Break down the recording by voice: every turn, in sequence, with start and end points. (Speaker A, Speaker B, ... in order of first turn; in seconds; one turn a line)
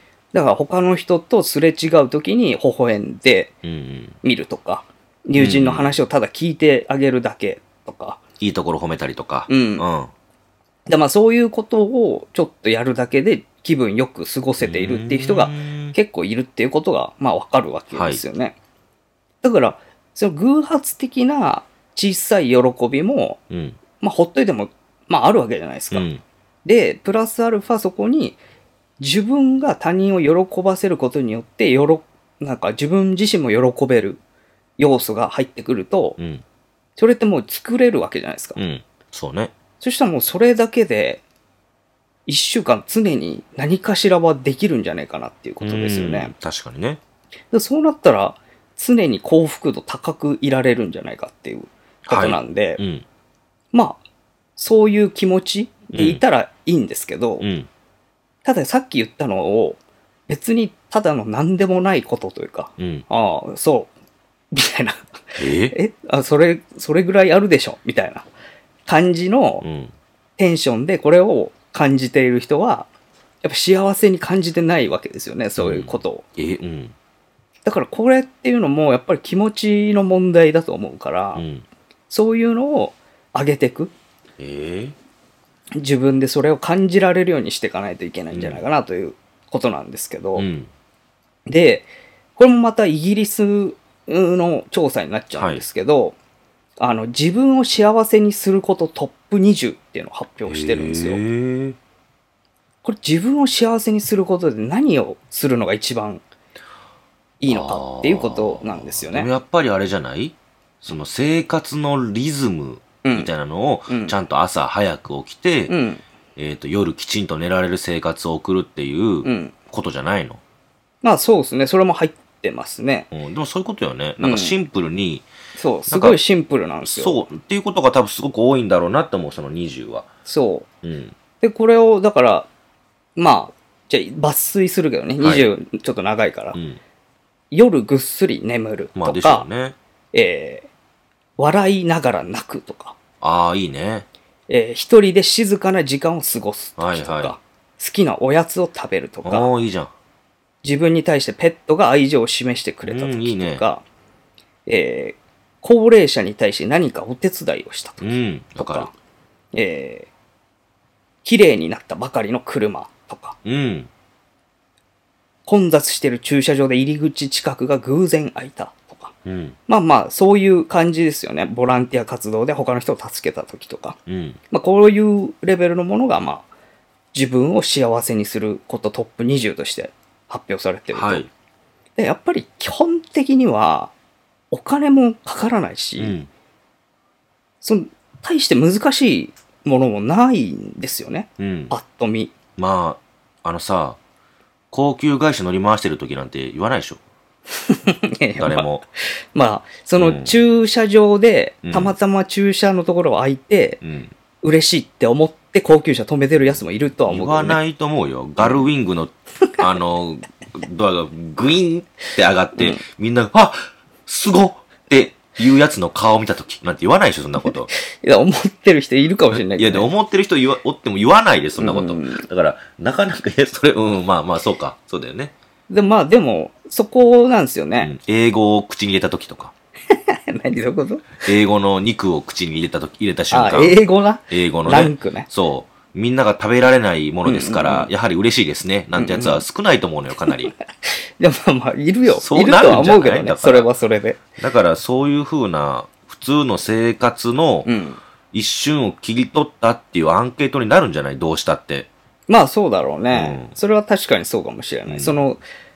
Speaker A: 0.3-3.5
Speaker B: 3.6-4.2
Speaker A: 4.2-8.2
Speaker B: 5.4-6.0
Speaker B: 8.4-10.1
Speaker A: 9.5-9.8
Speaker A: 10.9-18.6
Speaker B: 14.6-16.0
Speaker B: 17.9-18.2
Speaker A: 19.4-23.4
Speaker B: 23.5-23.8
Speaker A: 24.0-26.1
Speaker B: 25.9-26.2
Speaker A: 26.6-28.4
Speaker A: 29.0-34.2
Speaker A: 34.8-36.2
Speaker B: 36.2-36.4
Speaker A: 37.0-38.6
Speaker B: 38.6-39.5
Speaker A: 39.8-41.2
Speaker A: 42.3-46.3
Speaker B: 45.6-47.0
Speaker A: 47.5-52.8
Speaker B: 52.1-53.0
Speaker A: 53.7-54.0
Speaker A: 54.6-57.5
Speaker B: 55.9-56.2
Speaker B: 57.4-57.7
Speaker A: 58.4-63.9
Speaker B: 62.8-63.0
Speaker A: 64.5-68.3
Speaker B: 65.4-65.8
Speaker A: 68.9-69.7
Speaker B: 69.6-69.9
Speaker A: 70.4-72.9
Speaker A: 73.4-76.2
Speaker B: 75.6-76.9
Speaker A: 77.7-81.4
Speaker B: 81.3-81.7
Speaker A: 82.1-83.9
Speaker B: 84.4-85.0
Speaker A: 85.8-90.5
Speaker B: 88.3-88.6
Speaker B: 90.4-90.7
Speaker A: 91.5-96.2
Speaker B: 95.4-95.6
Speaker A: 96.8-101.2
Speaker B: 100.5-101.8
Speaker A: 102.8-106.2
Speaker A: 107.4-109.3
Speaker B: 107.5-115.7
Speaker A: 113.0-113.3
Speaker A: 113.9-114.2
Speaker A: 115.7-116.0
Speaker B: 116.4-120.4
Speaker A: 119.2-119.5
Speaker A: 121.0-123.1
Speaker B: 123.1-125.3
Speaker A: 124.2-124.6
Speaker A: 125.6-127.3
Speaker B: 125.9-126.2
Speaker B: 126.8-130.1
Speaker A: 130.3-130.7
Speaker B: 130.8-131.2
Speaker A: 131.4-132.5
Speaker A: 133.2-136.6
Speaker B: 135.2-135.5
Speaker B: 136.5-136.8
Speaker A: 137.5-139.5
Speaker B: 139.0-139.8
Speaker A: 140.1-140.7
Speaker A: 141.4-143.0
Speaker B: 143.2-144.1
Speaker A: 144.5-149.5
Speaker B: 146.8-147.3
Speaker B: 149.2-149.9
Speaker A: 150.6-153.8
Speaker B: 152.8-153.6
Speaker A: 154.7-158.9
Speaker B: 158.0-158.9
Speaker A: 159.5-160.1
Speaker A: 161.2-163.4
Speaker B: 163.4-163.9
Speaker A: 165.5-169.1
Speaker B: 169.2-169.6
Speaker A: 169.7-174.0
Speaker B: 174.1-174.4
Speaker A: 174.5-176.5
Speaker A: 177.1-181.3
Speaker B: 180.9-181.3
Speaker A: 182.0-183.9
Speaker A: 184.5-186.2
Speaker B: 186.0-186.3
Speaker A: 187.6-192.3
Speaker B: 191.4-191.7
Speaker B: 192.6-194.0
Speaker B: 194.7-197.0
Speaker A: 197.7-198.7
Speaker B: 198.4-198.8
Speaker A: 199.3-203.8
Speaker B: 200.0-200.4
Speaker B: 201.6-201.9
Speaker B: 203.8-204.1
Speaker A: 204.4-207.6
Speaker B: 207.1-217.7
Speaker A: 212.6-212.8
Speaker A: 217.7-219.9
Speaker B: 219.3-225.3
Speaker A: 221.6-222.2
Speaker A: 225.7-227.9
Speaker B: 227.8-229.5
Speaker A: 229.9-231.3
Speaker B: 231.2-240.5
Speaker A: 233.3-235.3
Speaker A: 237.2-237.9
Speaker A: 238.9-239.4
Speaker A: 240.8-244.2
Speaker B: 242.1-243.7
Speaker B: 244.4-247.7
Speaker A: 247.7-248.0
Speaker B: 248.3-251.9
Speaker A: 252.3-255.4
Speaker B: 253.1-253.6
Speaker B: 254.9-255.2